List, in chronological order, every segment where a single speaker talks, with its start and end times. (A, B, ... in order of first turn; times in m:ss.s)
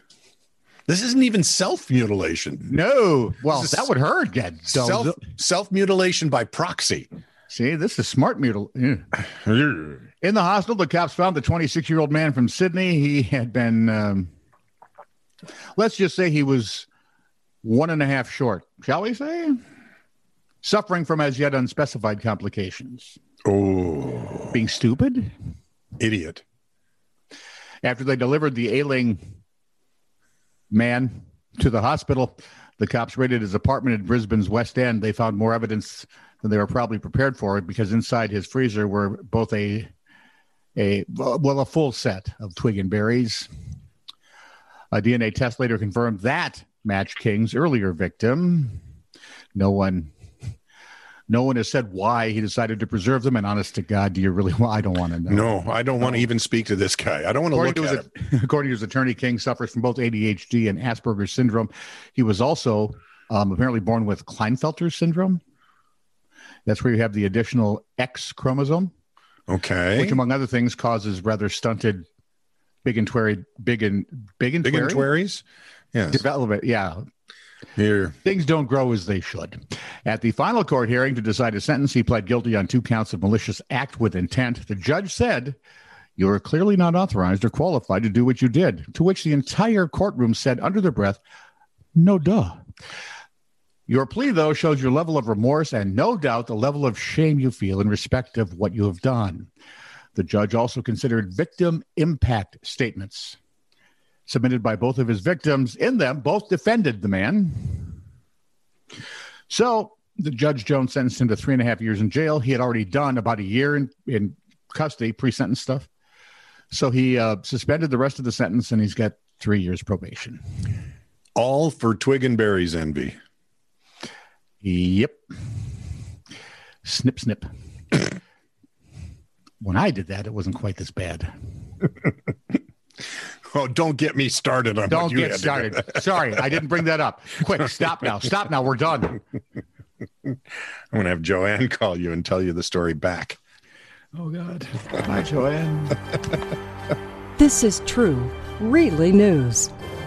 0:00.9-0:02.7 A
0:02.7-0:05.2 B
0:03.5-0:03.9 A
0:04.7-0:07.1 A
0:07.5-0:09.1 B
0:09.5-0:10.0 A
0:10.2-0:14.3 B
0:15.8-0:16.9 B
0:17.6-0:19.6 B
0:20.6-0:23.2 B
0:23.4-0:24.6 A
0:24.5-0:25.3 B
0:26.0-0:26.4 A
0:27.8-0:29.2 B
0:30.7-0:39.9 B
0:40.8-0:43.5 B
0:44.9-0:48.8 B
0:49.6-0:50.1 B
0:51.3-0:56.2 B
0:55.3-0:58.1 A
0:57.5-1:05.4 B
1:06.7-1:08.9 B
1:09.5-1:10.2 A
1:09.9-1:12.1 B
1:12.8-1:15.1 B
1:14.6-1:15.4 A
1:15.9-1:16.2 A
1:16.1-1:17.0 B
1:17.8-1:18.2 A
1:18.2-1:25.6 B
1:26.2-1:31.2 B
1:32.0-1:32.6 B
1:33.9-1:39.5 B
1:40.2-1:43.4 B
1:44.3-1:48.0 B
1:49.5-1:55.9 B
1:56.7-2:00.4 B
2:01.4-2:03.2 A
2:04.6-2:05.2 B
2:06.8-2:07.5 B
2:09.6-2:11.3 B
2:13.5-2:16.4 A
2:14.9-2:19.2 B
2:20.9-2:23.4 A
2:24.2-2:26.0 B
2:27.4-2:29.7 C